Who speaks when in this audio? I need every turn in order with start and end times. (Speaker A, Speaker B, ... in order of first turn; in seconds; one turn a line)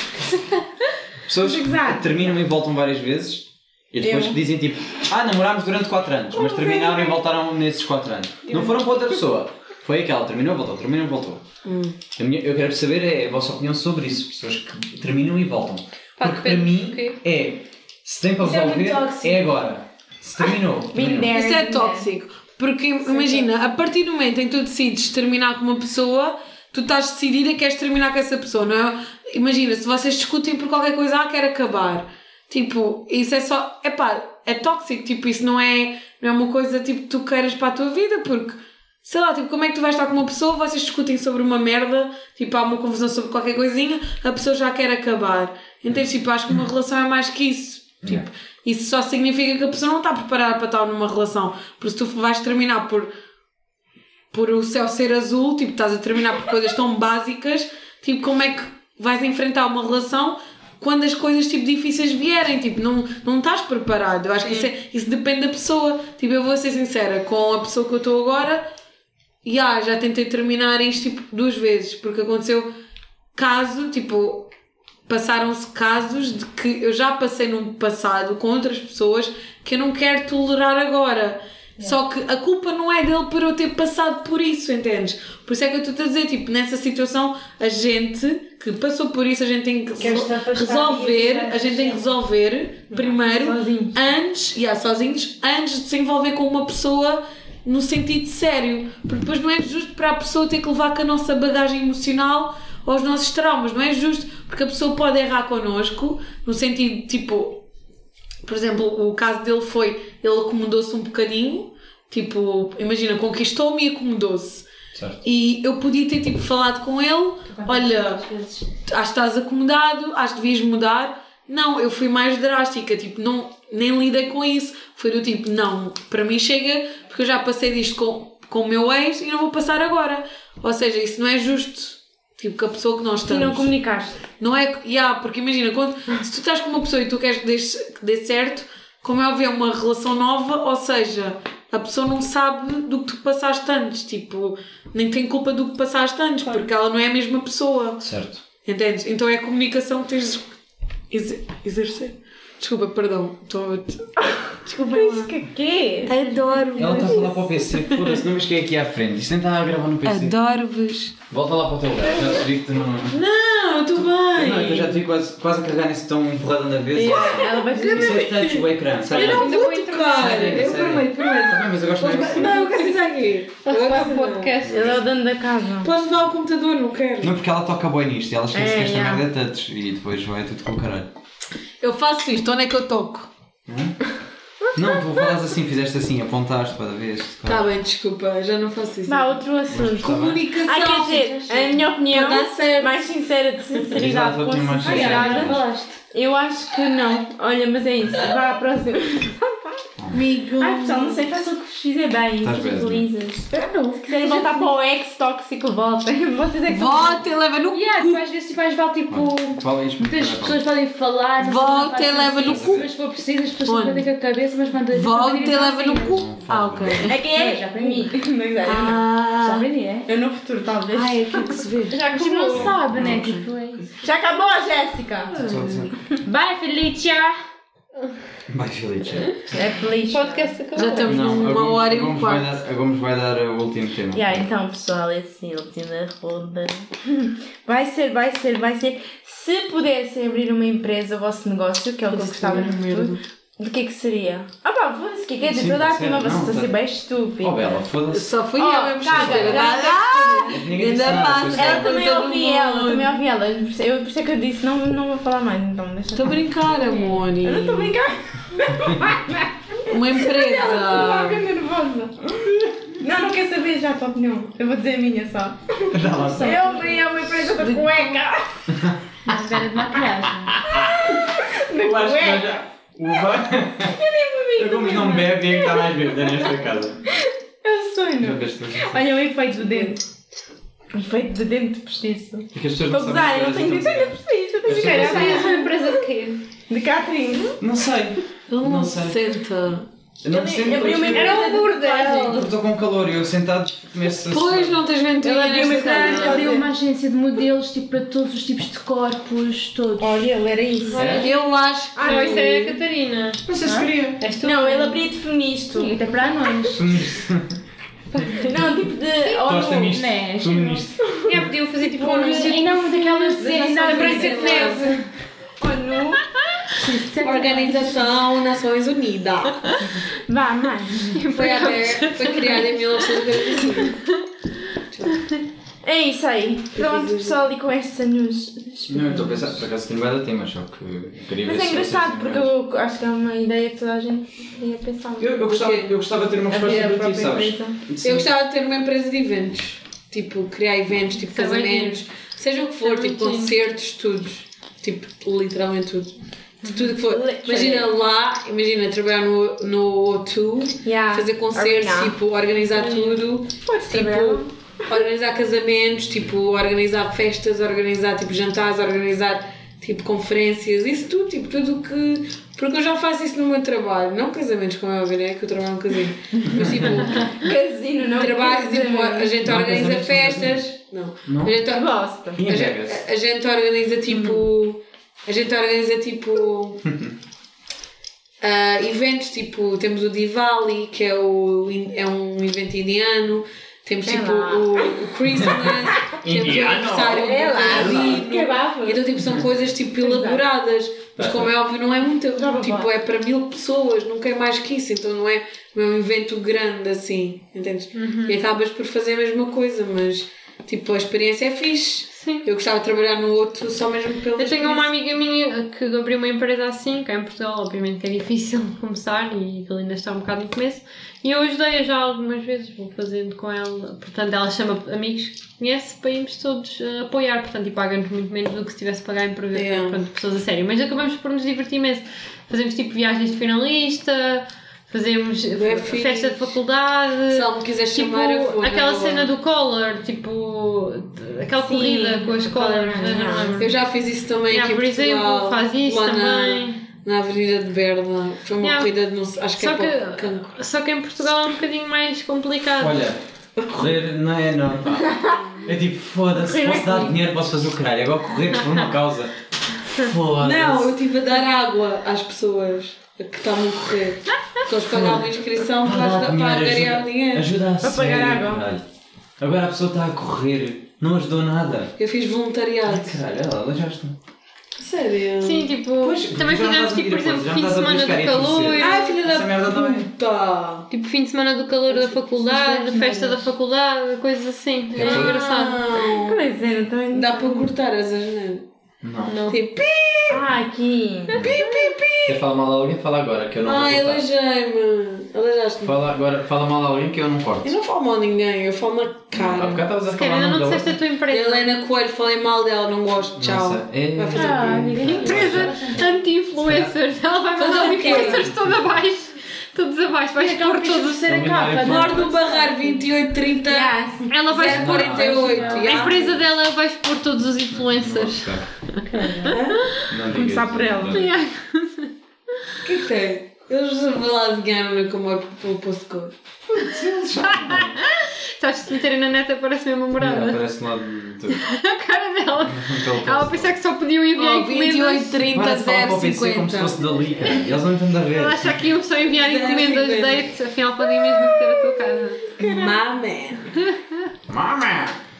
Speaker A: 1.3-11.4
Speaker B: 1.4-2.4
Speaker B: 4.0-4.4
Speaker C: 11.7-12.0
Speaker A: 12.2-21.3
Speaker D: 16.2-17.2
Speaker C: 18.4-19.3
Speaker B: 20.9-22.1
Speaker C: 21.3-53.1
Speaker B: 23.1-23.5
Speaker C: 54.3-68.6
Speaker C: 69.5-72.7
Speaker C: 73.4-74.5
Speaker C: 75.1-107.6
Speaker E: 90.0-92.0
Speaker B: 90.0-91.4
Speaker B: 92.9-93.9
Speaker C: 108.5-114.7
Speaker C: 115.2-118.3
Speaker E: 117.6-118.6
Speaker C: 118.8-133.7
Speaker B: 133.3-134.2
Speaker C: 134.4-148.0
Speaker A: 148.0-148.4
Speaker C: 148.7-150.4
Speaker C: 151.1-154.1
Speaker C: 154.7-155.3
Speaker B: 154.8-157.4
Speaker C: 156.1-158.2
Speaker A: 156.8-160.3
Speaker C: 160.0-161.2
Speaker A: 161.3-163.2
Speaker C: 163.1-165.0
Speaker A: 164.3-169.6
Speaker B: 166.9-168.3
Speaker C: 167.1-174.6
Speaker D: 169.1-170.8
Speaker A: 170.1-172.7
Speaker D: 173.7-175.0
Speaker A: 174.7-175.0
Speaker B: 174.7-175.9
Speaker C: 175.8-177.4
Speaker A: 177.2-181.1
Speaker B: 178.5-179.2
Speaker C: 181.8-183.3
Speaker A: 183.7-184.0
Speaker A: 184.7-187.7
Speaker C: 187.4-189.4
Speaker B: 189.1-199.9
Speaker A: 189.7-190.5
Speaker C: 190.0-193.1
Speaker A: 193.9-195.6
Speaker E: 194.8-195.9
Speaker C: 200.1-201.3
Speaker B: 200.6-207.2
Speaker A: 202.4-203.1
Speaker E: 203.5-204.7
Speaker C: 206.7-208.2
Speaker E: 207.7-216.2
Speaker A: 209.1-210.6
Speaker C: 211.4-212.7
Speaker A: 212.4-212.9
Speaker C: 213.7-214.1
Speaker C: 214.9-217.2
Speaker A: 216.2-217.1
Speaker B: 217.1-219.0
Speaker E: 217.3-218.1
Speaker C: 218.6-219.7
Speaker E: 219.4-220.1
Speaker B: 220.1-221.4
Speaker C: 220.9-222.0
Speaker E: 221.9-223.9
Speaker A: 222.5-223.2
Speaker C: 223.0-223.4
Speaker B: 224.0-225.3
Speaker C: 225.3-225.9
Speaker A: 225.4-226.0
Speaker E: 226.2-227.4
Speaker A: 228.5-229.4
Speaker B: 229.5-230.6
Speaker D: 230.1-231.4
Speaker C: 230.8-232.6
Speaker A: 231.0-234.5
Speaker B: 234.1-247.8
Speaker C: 242.1-243.2
Speaker A: 245.5-246.8
Speaker A: 247.4-248.4
Speaker C: 248.1-253.1
Speaker B: 248.6-256.7
Speaker A: 249.1-249.9
Speaker A: 250.5-251.9
Speaker C: 256.1-258.0
Speaker B: 257.4-268.5
Speaker C: 259.9-261.4
Speaker A: 265.9-266.7
Speaker A: 268.7-269.0
Speaker E: 269.3-270.6
Speaker A: 270.5-274.0
Speaker B: 270.7-272.6
Speaker B: 273.9-276.6
Speaker A: 274.6-277.0
Speaker B: 277.1-280.0
Speaker A: 278.2-279.0
Speaker B: 280.9-286.0
Speaker A: 282.5-285.5
Speaker D: 284.7-286.4
Speaker B: 286.7-287.6
Speaker A: 287.6-289.2
Speaker C: 288.5-289.9
Speaker A: 290.2-291.4
Speaker B: 290.3-292.5
Speaker C: 290.7-291.0
Speaker D: 291.1-292.4
Speaker A: 292.2-294.8
Speaker C: 294.3-296.5
Speaker B: 295.2-296.7
Speaker E: 295.6-300.2
Speaker B: 300.0-301.1
Speaker D: 300.9-301.4
Speaker C: 300.9-302.5
Speaker A: 301.0-301.3
Speaker B: 301.9-302.8
Speaker D: 302.0-303.4
Speaker A: 303.5-304.2
Speaker E: 303.6-303.9
Speaker D: 304.2-305.0
Speaker B: 304.4-306.0
Speaker E: 305.8-306.9
Speaker A: 306.7-307.6
Speaker D: 308.1-308.5
Speaker B: 308.4-314.9
Speaker E: 309.2-310.9
Speaker A: 309.4-311.5
Speaker D: 311.3-314.9
Speaker E: 312.1-315.0
Speaker C: 314.0-315.0
Speaker B: 315.6-316.2
Speaker E: 316.8-317.9
Speaker C: 317.2-319.8
Speaker B: 320.1-321.2
Speaker D: 321.1-323.1
Speaker C: 321.3-324.0
Speaker C: 324.9-325.2
Speaker B: 325.8-329.7
Speaker C: 326.7-327.4
Speaker A: 328.9-332.5
Speaker B: 331.4-335.5
Speaker A: 335.2-338.3
Speaker C: 335.5-336.0
Speaker B: 336.5-337.8
Speaker C: 338.0-346.1
Speaker D: 341.3-342.0
Speaker D: 342.8-343.5
Speaker C: 346.6-367.4
Speaker D: 346.6-346.9
Speaker B: 347.1-347.9
Speaker B: 350.8-352.2
Speaker D: 352.8-353.2
Speaker B: 353.7-354.5
Speaker A: 366.4-366.9
Speaker D: 366.8-367.4
Speaker B: 367.1-369.5
Speaker C: 368.2-376.8
Speaker A: 369.4-370.6
Speaker A: 371.3-371.6
Speaker B: 371.6-372.4
Speaker A: 372.4-373.0
Speaker A: 376.9-377.1
Speaker C: 378.4-404.9
Speaker B: 384.0-384.9
Speaker A: 386.2-388.2
Speaker B: 387.2-389.1
Speaker B: 390.0-390.4
Speaker A: 391.2-391.5
Speaker B: 392.4-392.9
Speaker D: 397.9-398.4
Speaker D: 402.2-402.5
Speaker D: 404.4-433.7
Speaker C: 419.5-420.0
Speaker C: 425.6-426.6
Speaker C: 427.3-429.3
Speaker B: 431.6-433.7
Speaker C: 433.6-440.6
Speaker D: 434.5-436.8
Speaker D: 438.6-438.9
Speaker D: 439.6-443.0
Speaker A: 442.8-450.9
Speaker B: 445.0-445.4
Speaker C: 445.3-445.7
Speaker B: 446.4-447.2
Speaker C: 450.4-457.5
Speaker A: 454.8-455.3
Speaker A: 455.8-458.8
Speaker B: 457.8-458.7
Speaker A: 459.4-461.9
Speaker C: 462.0-463.2
Speaker A: 462.9-464.2
Speaker C: 464.8-465.7
Speaker D: 465.4-469.0
Speaker A: 466.0-470.1
Speaker C: 468.8-470.9
Speaker D: 470.9-475.8
Speaker E: 472.4-473.5
Speaker A: 475.0-475.3
Speaker C: 475.0-476.5
Speaker B: 476.0-477.7
Speaker C: 477.1-478.6
Speaker A: 479.0-479.4
Speaker D: 479.3-479.6
Speaker C: 479.5-480.5
Speaker B: 480.3-481.4
Speaker C: 481.3-482.4
Speaker A: 482.3-484.2
Speaker C: 483.6-486.0
Speaker A: 485.8-487.7
Speaker C: 487.6-489.9
Speaker A: 489.3-491.0
Speaker D: 490.1-491.7
Speaker C: 491.3-495.4
Speaker A: 493.4-495.8
Speaker B: 494.3-496.0
Speaker E: 494.4-496.1
Speaker D: 495.1-501.5
Speaker A: 496.6-496.9
Speaker C: 497.6-498.5
Speaker B: 497.8-498.5
Speaker A: 498.5-498.9
Speaker E: 500.4-502.9
Speaker A: 501.3-502.3
Speaker C: 501.8-503.9
Speaker B: 503.7-504.4
Speaker D: 504.3-510.1
Speaker C: 504.5-506.2
Speaker A: 504.6-506.6
Speaker A: 507.7-508.7
Speaker E: 509.1-509.5
Speaker C: 509.5-509.8
Speaker A: 510.1-511.3
Speaker B: 510.3-511.3
Speaker D: 511.1-512.1
Speaker C: 512.8-516.3
Speaker A: 516.7-518.0
Speaker D: 517.4-520.6
Speaker A: 520.2-521.6
Speaker D: 521.5-525.5
Speaker A: 522.7-523.8
Speaker C: 524.4-527.0
Speaker A: 525.5-528.9
Speaker D: 527.4-527.8
Speaker D: 528.3-532.4
Speaker C: 529.3-530.5
Speaker C: 532.5-533.7
Speaker B: 532.6-533.0
Speaker D: 533.8-534.2
Speaker A: 534.5-535.2